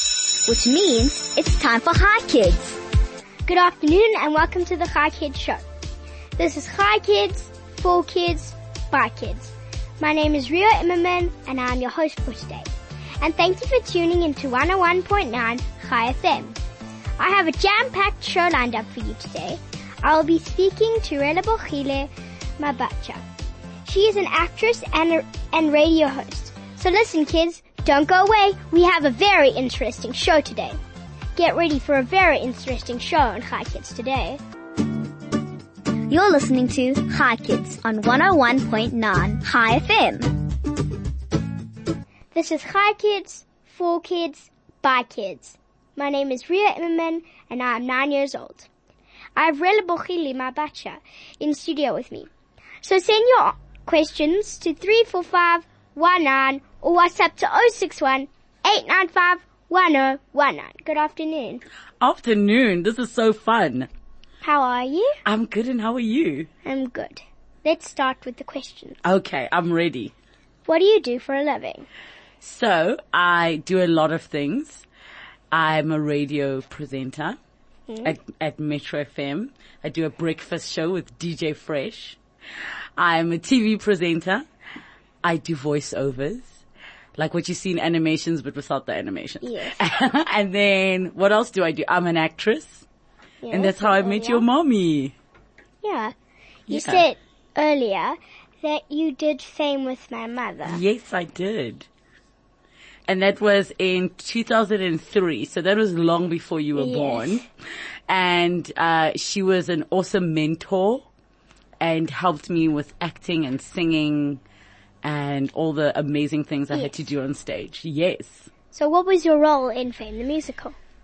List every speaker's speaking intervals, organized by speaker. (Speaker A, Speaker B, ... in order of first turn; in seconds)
Speaker A: 0.5-2.8, 36.1-40.4
Speaker B: 3.5-5.6, 6.4-16.6, 17.2-23.2, 23.9-30.8, 31.4-34.4, 42.3-48.7, 49.4-52.3, 52.8-61.6, 64.4-65.2, 66.7-69.0, 70.7-71.9, 77.9-78.1, 89.4-89.9, 93.4-94.5, 95.8-96.1, 96.7-100.8, 106.8-107.4, 118.7-120.8
Speaker C: 62.0-63.9, 65.2-66.5, 69.0-70.1, 72.4-74.8, 75.5-77.4, 78.0-82.2, 83.0-84.5, 85.2-86.6, 87.2-92.8, 93.5-95.2, 96.7-97.0, 100.7-101.9, 103.1-107.5, 108.1-111.1, 111.8-114.4, 115.0-118.5